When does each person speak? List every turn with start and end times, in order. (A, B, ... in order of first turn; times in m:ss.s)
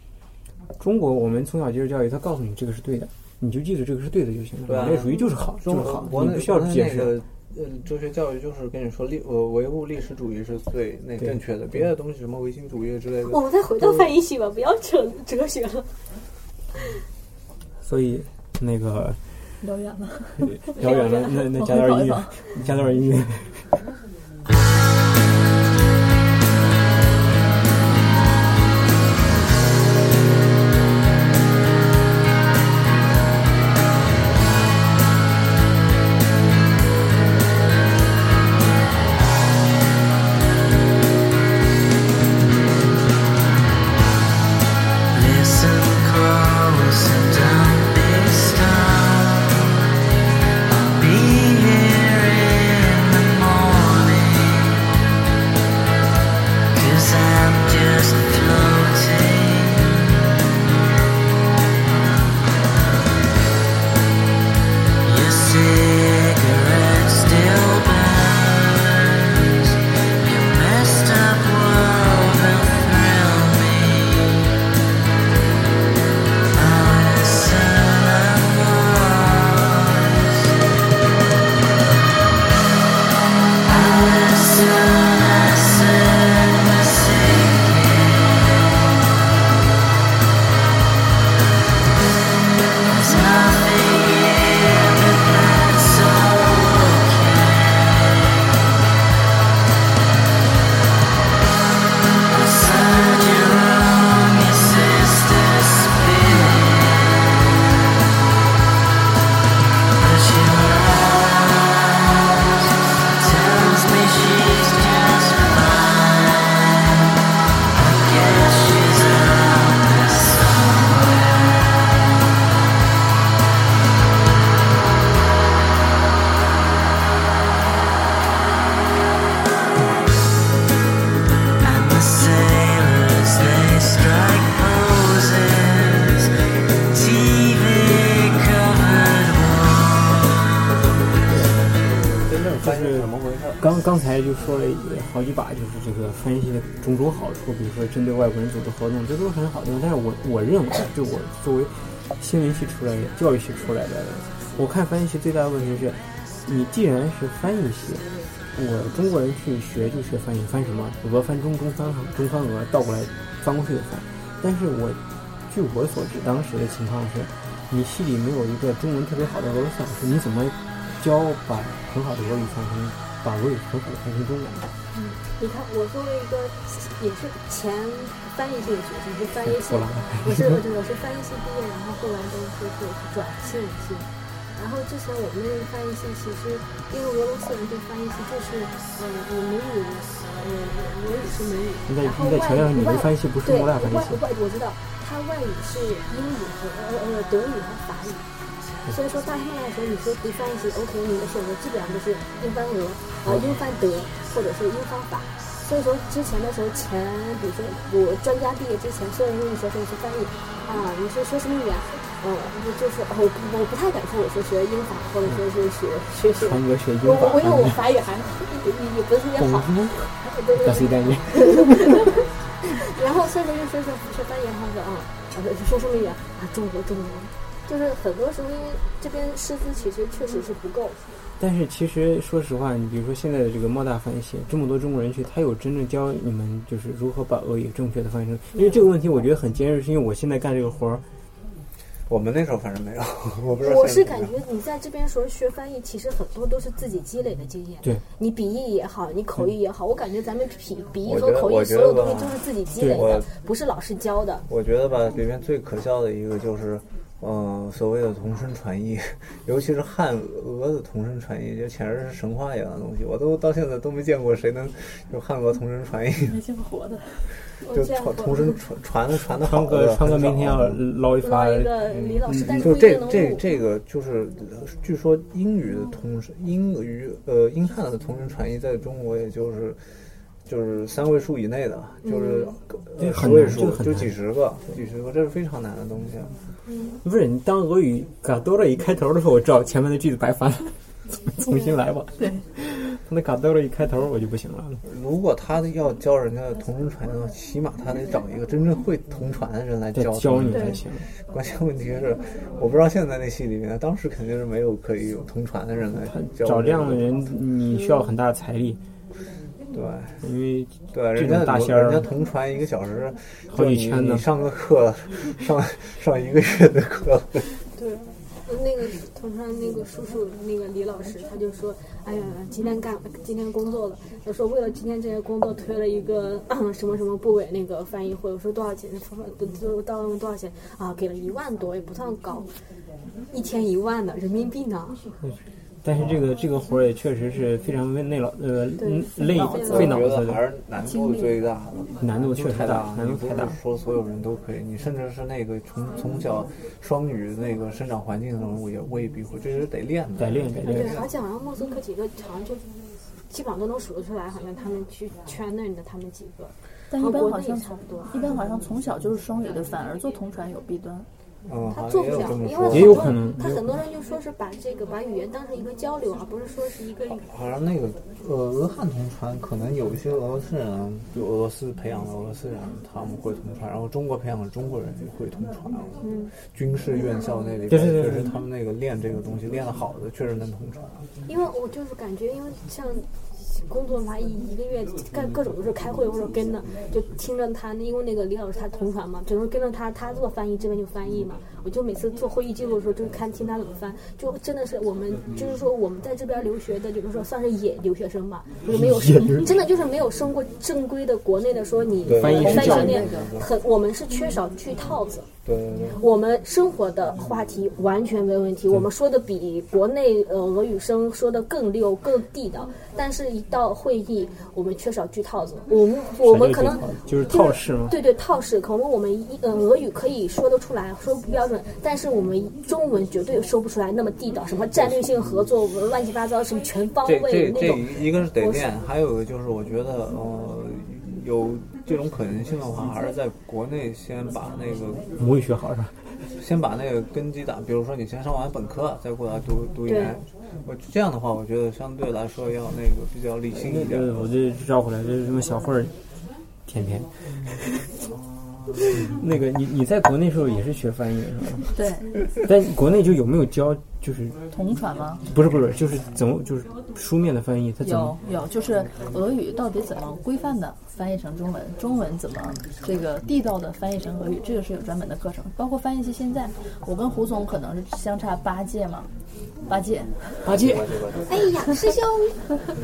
0:00.8-0:07.2 A
0:04.7-0:14.1 B
0:11.2-0:11.9 A
0:13.3-0:15.9 C
0:17.8-0:19.2 A
0:19.6-0:20.8 D
0:20.4-0:23.7 A
0:20.8-0:21.5 C
0:21.5-0:22.4 D
0:45.1-0:49.7 E
0:50.6-0:54.9 E
0:56.7-1:00.2 E
1:05.0-1:14.5 E
1:16.5-1:20.5 E
1:23.6-1:28.7 E
1:32.8-1:38.5 E
1:42.3-1:47.5 E
1:49.9-1:57.0 E
1:57.7-2:02.1 E
2:11.6-2:20.3 E
2:20.8-2:23.6 B
2:22.5-2:54.7 A
2:54.9-3:18.2 C
2:59.4-3:00.6 A
3:11.9-3:14.2 A
3:18.9-3:51.0 C
3:23.2-3:23.5 A
3:36.4-3:37.8 A
3:39.4-3:42.1 A
3:51.4-4:01.0 A
3:58.5-3:58.8 C
4:02.1-4:04.3 B
4:03.6-4:14.4 C
4:11.0-4:13.3 B
4:12.8-4:13.1 A
4:14.5-4:26.4 B
4:26.3-4:27.3 D
4:27.6-4:28.6 C
4:27.7-4:30.8 B
4:29.3-4:32.8 A
4:31.2-4:33.4 C
4:31.9-4:39.8 B
4:40.4-4:46.3 B
4:42.0-4:42.6 C
4:43.0-4:44.1 A
4:46.7-4:47.0 C
4:47.0-4:54.8 A
4:54.8-5:07.1 B
4:59.9-5:01.1 A
5:06.0-5:08.8 A
5:09.7-5:10.2 B
5:10.2-5:12.1 A
5:10.9-5:17.5 B
5:13.5-5:14.3 A
5:17.8-5:32.5 C
5:33.3-5:35.0 C
5:35.2-5:40.4 A
5:38.8-5:40.1 C
5:39.2-5:40.0 D
5:39.6-5:51.1 B
5:40.8-5:41.3 D
5:42.0-5:43.6 A
5:50.2-5:51.0 A
5:50.6-5:52.6 C
5:53.3-5:58.1 C
5:56.9-6:01.1 D
6:01.4-6:03.2 B
6:01.7-6:07.2 C
6:02.7-6:03.6 A
6:07.2-6:21.0 B
6:16.0-6:16.3 C
6:17.7-6:18.4 A
6:21.3-6:45.3 C
6:38.6-6:39.6 A
6:42.0-6:43.5 B
6:42.1-6:43.1 A
6:42.3-6:43.3 D
6:45.4-6:46.0 B
6:46.0-7:08.7 C
6:56.2-6:58.0 A
7:07.0-7:15.0 B
7:15.2-7:16.0 A
7:16.4-7:24.2 B
7:19.8-7:20.2 C
7:23.5-7:25.9 A
7:26.6-7:27.8 A
7:28.9-7:31.7 A
7:31.7-7:32.1 D
7:32.4-7:34.4 A
7:34.5-7:35.2 D
7:35.3-7:38.2 A
7:37.8-7:49.1 D
7:49.7-7:50.4 D
7:50.4-7:51.0 A
7:50.6-7:51.2 B
7:51.3-7:52.4 C